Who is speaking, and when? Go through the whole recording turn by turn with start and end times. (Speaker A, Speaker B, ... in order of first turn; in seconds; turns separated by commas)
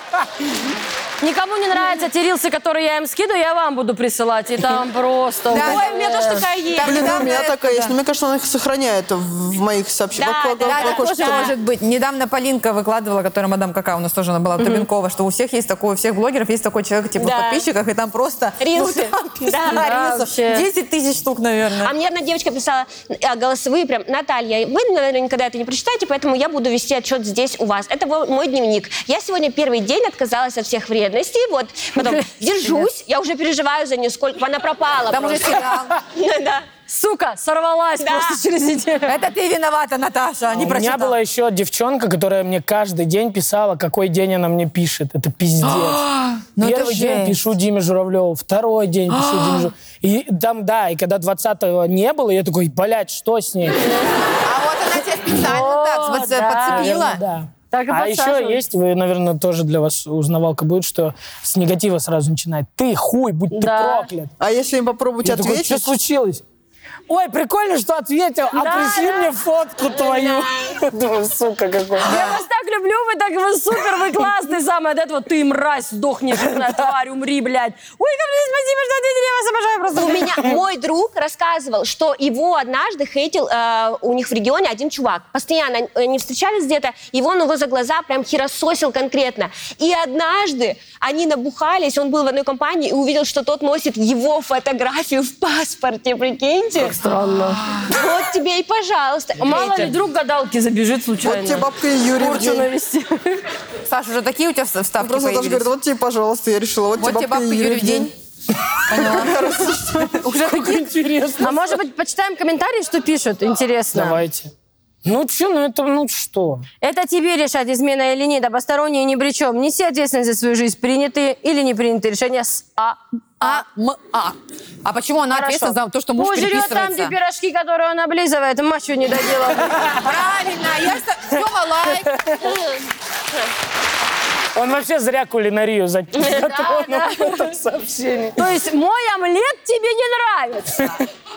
Speaker A: 1.2-6.5, Speaker B: 5.5-6.0, Speaker C: 5.5-7.4, Speaker B: 6.7-8.0, Speaker D: 6.8-11.5, Speaker C: 10.2-11.5, Speaker B: 10.6-21.9, Speaker C: 17.2-17.7, Speaker C: 18.6-19.9, Speaker A: 19.6-20.7, Speaker C: 21.8-36.7, Speaker A: 31.9-32.8, Speaker B: 35.1-36.0, Speaker A: 36.9-39.1, Speaker C: 38.0-38.4, Speaker B: 39.0-41.1, Speaker E: 40.5-53.8, Speaker B: 45.6-47.4, Speaker B: 49.1-49.7, Speaker B: 54.4-57.2, Speaker A: 55.4-57.1, Speaker E: 56.6-64.3, Speaker A: 57.7-58.6, Speaker A: 63.5-64.1, Speaker D: 64.4-65.9, Speaker E: 65.2-66.4, Speaker E: 67.1-72.2, Speaker A: 68.5-69.3, Speaker A: 72.0-80.4, Speaker B: 72.0-72.4, Speaker E: 76.3-76.8, Speaker C: 80.0-97.0, Speaker A: 96.8-97.6, Speaker C: 97.9-99.9, Speaker A: 99.4-103.4, Speaker D: 101.2-102.7, Speaker B: 103.9-105.7, Speaker D: 105.0-108.1, Speaker B: 107.0-108.1, Speaker B: 108.8-110.9, Speaker D: 108.9-110.3, Speaker E: 110.2-111.8, Speaker A: 111.4-114.2, Speaker E: 113.9-114.5, Speaker E: 115.0-116.6, Speaker A: 116.8-123.6, Speaker B: 123.4-127.1, Speaker A: 125.3-129.8, Speaker B: 129.9-132.2, Speaker E: 132.1-132.5, Speaker E: 134.5-138.5, Speaker A: 136.2-137.5, Speaker A: 138.4-141.0